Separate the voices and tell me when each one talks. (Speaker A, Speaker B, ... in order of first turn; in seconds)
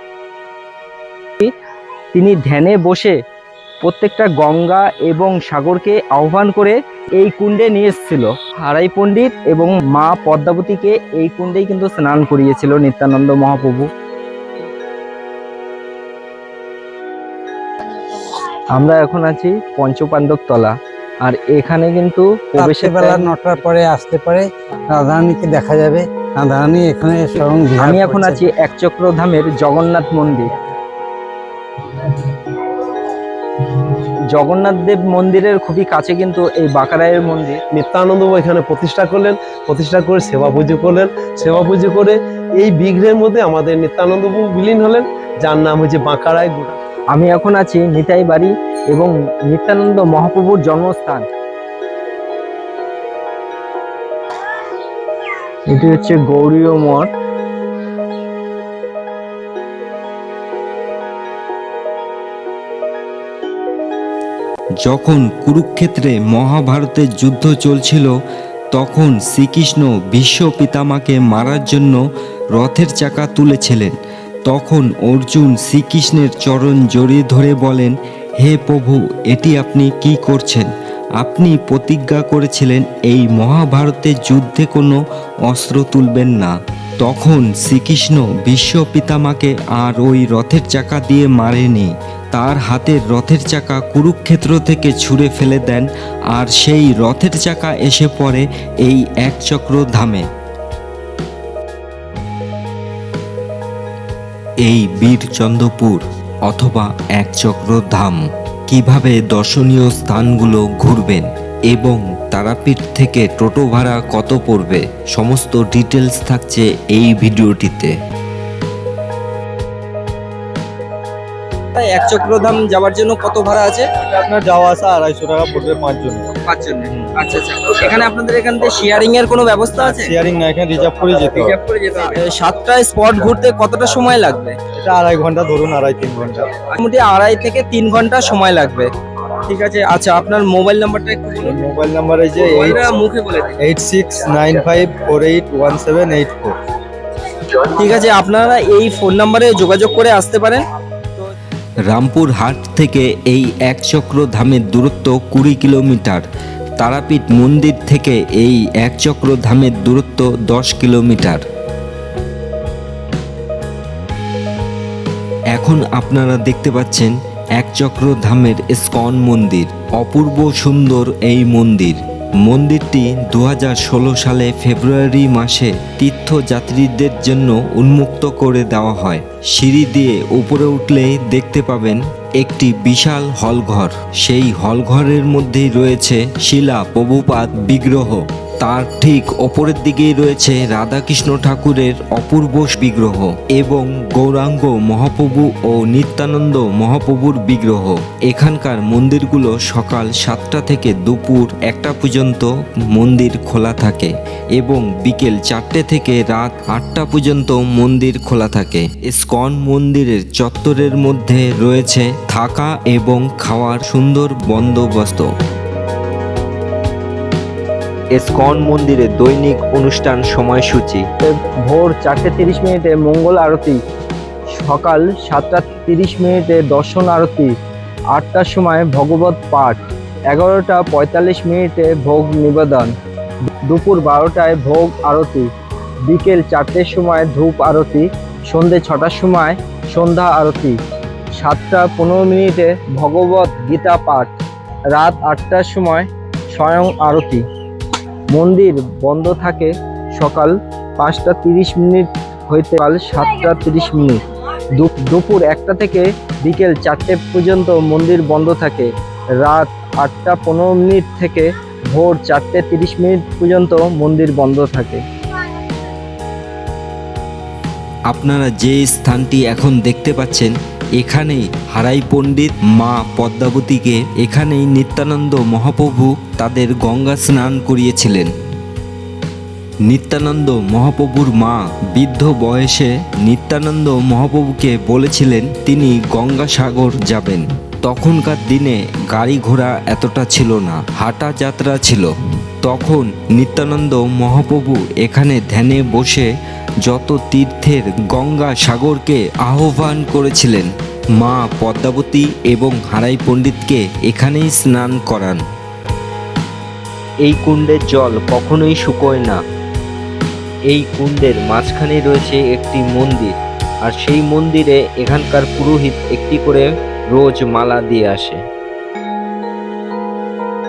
Speaker A: 2.1-3.2, 3.8-13.9, 18.8-23.3, 27.8-30.5, 34.3-37.6, 47.1-51.2, 55.7-57.1, 121.7-123.9, 126.4-130.1, 131.3-134.6, 136.7-138.9, 139.4-141.6, 142.4-143.6, 147.7-150.6, 221.2-223.8, 224.6-227.5, 228.1-229.8, 230.3-232.9, 233.7-235.5, 236.1-240.8, 241.3-244.4, 244.9-247.4, 248.3-254.2, 254.8-258.9, 259.4-265.0
Speaker B: 22.6-28.4
Speaker C: 37.7-46.8
Speaker D: 64.8-68.1, 68.7-72.0, 72.5-73.9, 74.5-80.7, 81.2-85.0, 85.5-100.2, 104.6-117.9, 151.9-156.2, 156.8-161.4, 165.5-215.3, 218.2-221.0, 268.1-278.3, 279.9-292.1, 292.6-296.3, 296.8-305.4, 307.2-309.4, 310.7-313.3, 313.9-318.4
Speaker E: 124.2-126.3, 129.7-131.6, 134.8-136.4, 141.4-142.8, 143.6-146.5